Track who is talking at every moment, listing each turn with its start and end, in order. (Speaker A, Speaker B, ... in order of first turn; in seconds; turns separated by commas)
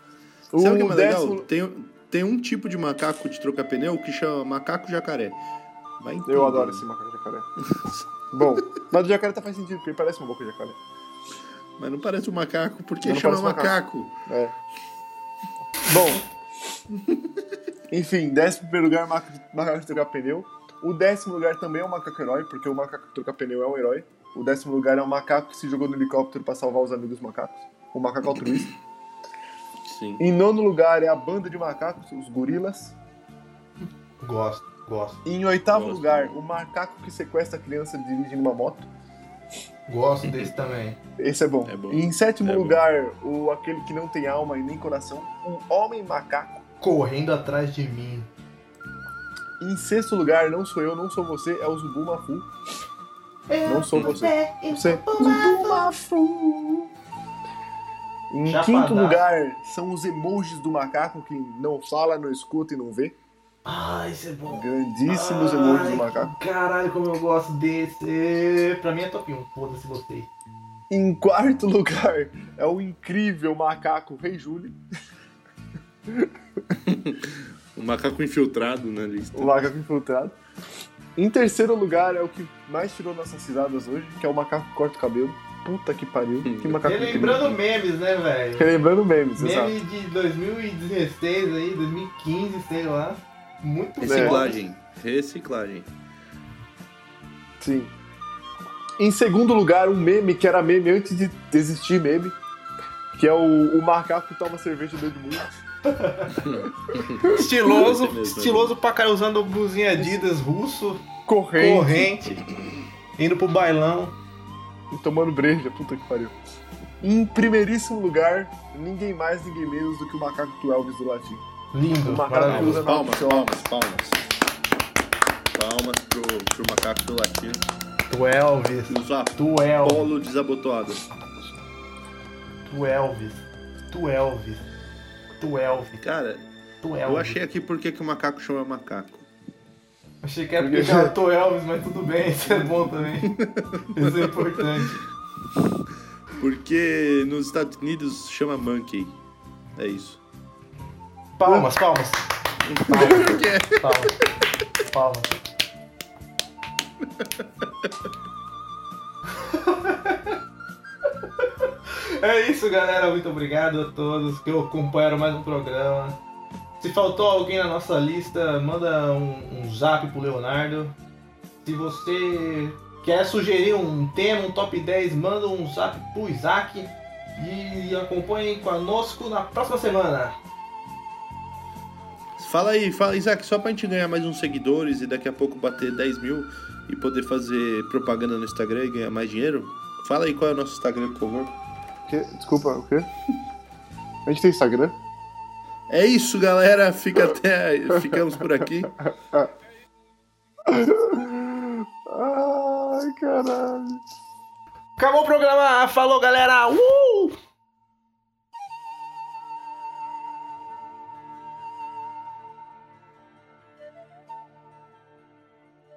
Speaker A: 0.5-1.5, Speaker B: 0.6-5.4, Speaker B: 6.0-6.8, Speaker A: 6.2-7.5, Speaker B: 7.7-8.5, Speaker A: 8.3-10.8, Speaker B: 11.8-14.1, Speaker A: 13.0-14.6, Speaker A: 15.8-16.2, Speaker A: 17.9-28.7, Speaker B: 29.8-30.2, Speaker A: 30.2-32.9, Speaker C: 34.2-35.2, Speaker A: 35.2-38.9, Speaker B: 35.7-36.4, Speaker C: 39.9-41.0, Speaker B: 40.2-40.5, Speaker A: 41.2-46.6, Speaker B: 41.6-42.8, Speaker C: 46.8-48.3, Speaker A: 49.6-52.5, Speaker C: 53.5-55.9, Speaker A: 53.6-56.9, Speaker B: 53.9-54.3, Speaker A: 58.3-63.1, Speaker C: 58.5-59.2, Speaker C: 63.6-70.3, Speaker A: 64.5-66.3, Speaker A: 70.9-74.8, Speaker A: 76.1-76.3, Speaker B: 76.8-79.7, Speaker A: 79.3-80.3, Speaker A: 81.2-87.5, Speaker B: 86.4-87.6, Speaker C: 86.8-88.7, Speaker A: 88.6-89.7, Speaker C: 89.4-94.6, Speaker B: 94.0-95.9, Speaker A: 94.0-94.4, Speaker A: 97.6-97.9, Speaker A: 99.0-102.4, Speaker A: 103.1-105.5, Speaker C: 105.9-106.4, Speaker B: 106.4-108.7, Speaker C: 107.2-111.0, Speaker A: 110.0-110.2, Speaker A: 111.2-112.2, Speaker C: 111.5-112.4, Speaker C: 113.2-114.1, Speaker A: 114.9-116.3, Speaker A: 117.0-121.4, Speaker C: 121.7-122.9, Speaker A: 122.0-123.7, Speaker B: 122.5-124.2, Speaker B: 125.5-127.7, Speaker C: 128.1-130.1, Speaker B: 128.9-131.0, Speaker C: 132.7-134.7, Speaker C: 135.4-136.0, Speaker B: 136.0-136.4, Speaker C: 136.8-137.4, Speaker B: 137.0-139.3, Speaker C: 140.2-143.4, Speaker A: 140.6-141.1, Speaker B: 143.3-144.3, Speaker C: 143.9-145.0, Speaker B: 146.4-149.2, Speaker B: 149.8-150.2, Speaker C: 151.4-154.2, Speaker A: 151.4-151.7, Speaker B: 152.7-154.1, Speaker C: 154.8-155.3, Speaker B: 157.0-157.8, Speaker C: 159.4-160.4, Speaker C: 161.4-166.2, Speaker C: 166.8-170.9, Speaker C: 171.6-180.3, Speaker B: 182.4-191.5, Speaker A: 192.1-193.1, Speaker A: 194.2-194.9, Speaker B: 195.9-198.9, Speaker A: 199.0-199.5, Speaker A: 200.7-204.0, Speaker C: 205.0-207.3